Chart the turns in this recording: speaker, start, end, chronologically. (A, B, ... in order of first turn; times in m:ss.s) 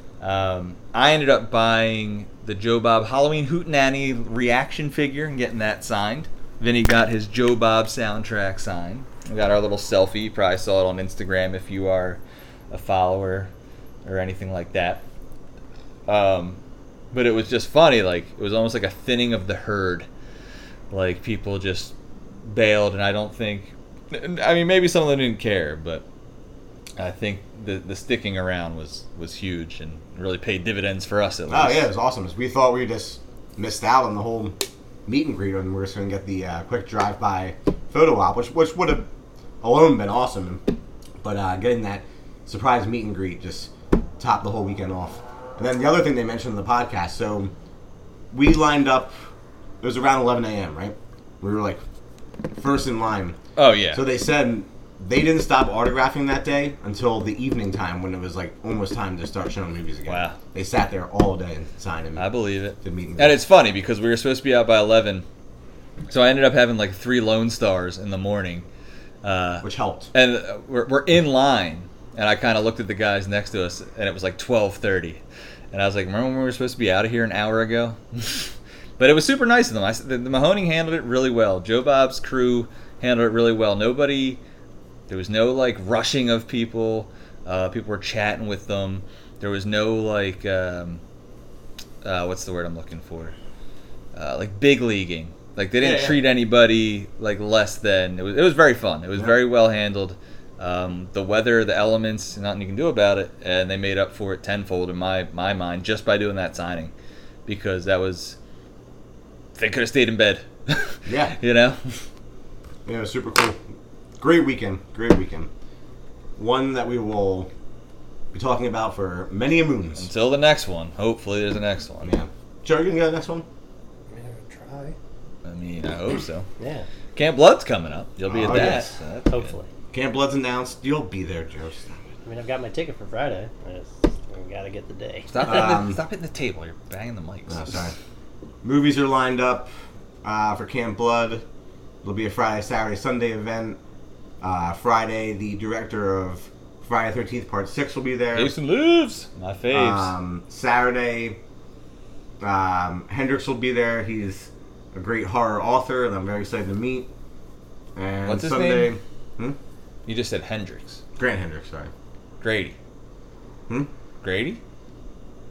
0:00.2-0:13.5 A
0:14.0-0:15.0 A
0:16.1-0:16.6 A
0:17.1-0:20.1 A
0:20.9-0:26.0 A
0:27.0-0:31.9 A
0:31.5-0:39.1 B
0:39.6-0:40.6 B
0:41.2-0:47.5 B
0:48.3-0:49.1 B
0:49.8-0:51.8 B
0:52.6-0:53.4 B
0:53.6-0:54.0 A
0:53.9-1:02.3 B
1:00.1-1:00.4 A
1:02.2-1:05.2 A
1:02.8-1:03.4 B
1:06.1-1:08.7 A
1:09.2-1:15.2 A
1:09.6-1:10.1 B
1:15.7-1:24.4 A
1:25.1-1:31.0 A
1:32.0-1:33.4 A
1:34.1-1:46.9 A
1:35.8-1:36.2 B
1:47.5-1:48.4 A
1:49.6-1:52.0 A
1:51.1-1:51.4 B
1:52.9-1:53.6 B
1:54.2-1:55.5 B
1:56.4-1:57.5 B
1:58.3-2:00.1 B
2:00.0-2:02.1 A
2:02.0-2:03.5 B
2:04.1-2:05.0 C
2:05.4-2:06.5 A
2:06.6-2:06.9 C
2:07.2-2:09.6 A
2:08.3-2:08.9 B
2:08.5-2:09.7 C
2:09.9-2:12.0 B
2:12.2-2:15.4 C
2:15.3-2:17.8 A
2:15.4-2:16.0 B
2:17.5-2:17.9 B
2:18.6-2:19.7 B
2:20.2-2:21.4 B
2:22.0-2:23.8 B
2:24.4-2:28.5 B
2:28.3-2:30.1 A
2:29.7-2:31.4 B
2:32.4-2:37.1 B
2:38.0-2:39.6 B
2:38.2-2:39.0 A
2:40.1-2:41.0 A
2:41.2-2:41.9 B
2:42.4-2:42.8 A
2:44.2-2:44.6 A